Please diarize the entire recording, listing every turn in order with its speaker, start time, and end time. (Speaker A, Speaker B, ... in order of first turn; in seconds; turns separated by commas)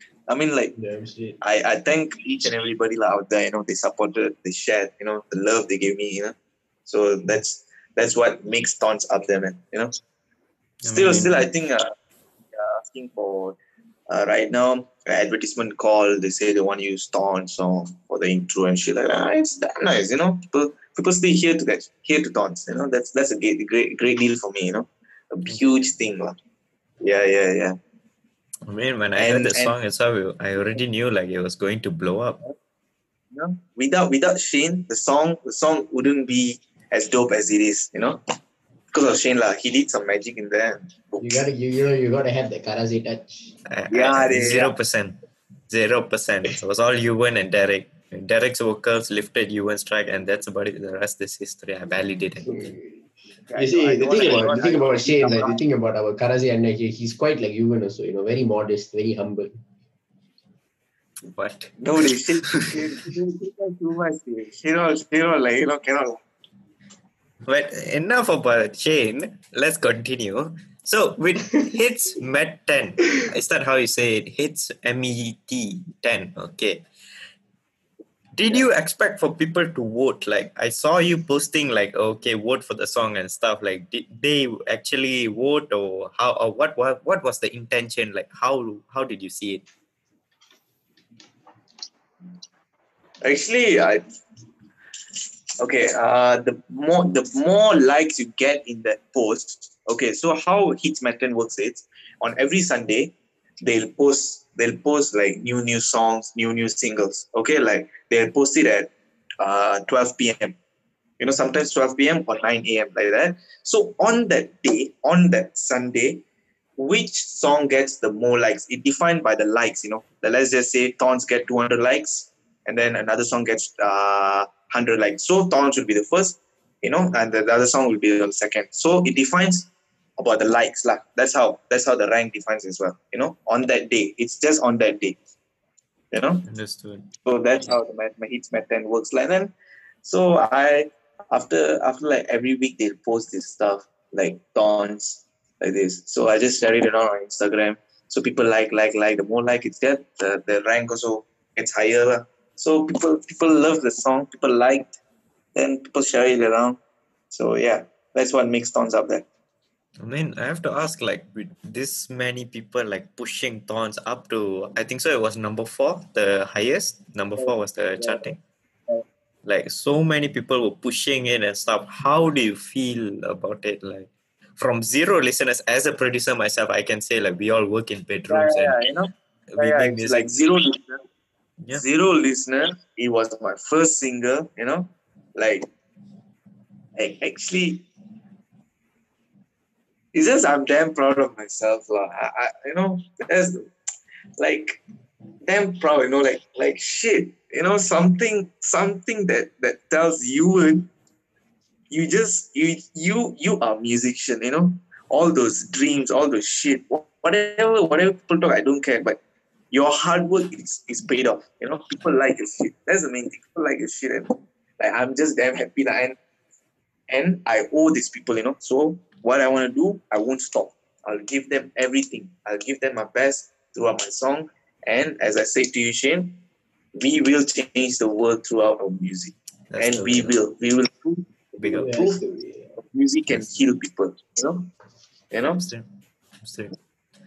Speaker A: 0.3-0.7, Speaker B: 0.7-1.4, Speaker A: 1.4-6.3, Speaker A: 6.8-9.9, Speaker C: 10.8-11.4, Speaker A: 10.8-11.9, Speaker A: 12.5-13.6, Speaker A: 14.1-26.4, Speaker A: 27.0-27.8, Speaker C: 28.6-32.4, Speaker A: 29.1-29.7, Speaker A: 33.3-38.2, Speaker A: 38.9-41.5, Speaker B: 41.2-43.5, Speaker C: 43.6-45.1, Speaker A: 43.9-44.8, Speaker C: 45.7-52.6, Speaker B: 52.4-53.0, Speaker A: 53.5-55.6, Speaker B: 53.5-59.5, Speaker C: 61.3-62.9, Speaker A: 61.8-66.2, Speaker C: 67.4-76.8, Speaker C: 78.3-89.6, Speaker A: 93.2-94.0, Speaker A: 95.6-110.6, Speaker A: 111.2-116.2, Speaker A: 116.8-135.2, Speaker A: 136.1-136.4, Speaker C: 136.4-137.1, Speaker A: 137.2-139.5, Speaker A: 140.0-154.9, Speaker A: 155.5-156.8, Speaker A: 157.3-159.3, Speaker C: 160.0-168.4, Speaker A: 167.4-168.3, Speaker C: 169.4-178.8, Speaker A: 178.3-181.0, Speaker C: 179.5-180.3, Speaker A: 181.7-185.7, Speaker A: 187.0-187.8, Speaker A: 190.1-193.7, Speaker A: 194.4-194.8, Speaker A: 195.4-200.9, Speaker A: 201.9-209.2, Speaker A: 209.7-216.2, Speaker A: 217.1-226.4, Speaker A: 226.9-231.3, Speaker C: 229.7-230.3, Speaker C: 231.6-232.1, Speaker B: 231.6-232.7, Speaker A: 231.8-232.2, Speaker A: 232.8-234.7, Speaker A: 235.3-235.7, Speaker C: 235.6-235.9, Speaker C: 236.4-236.7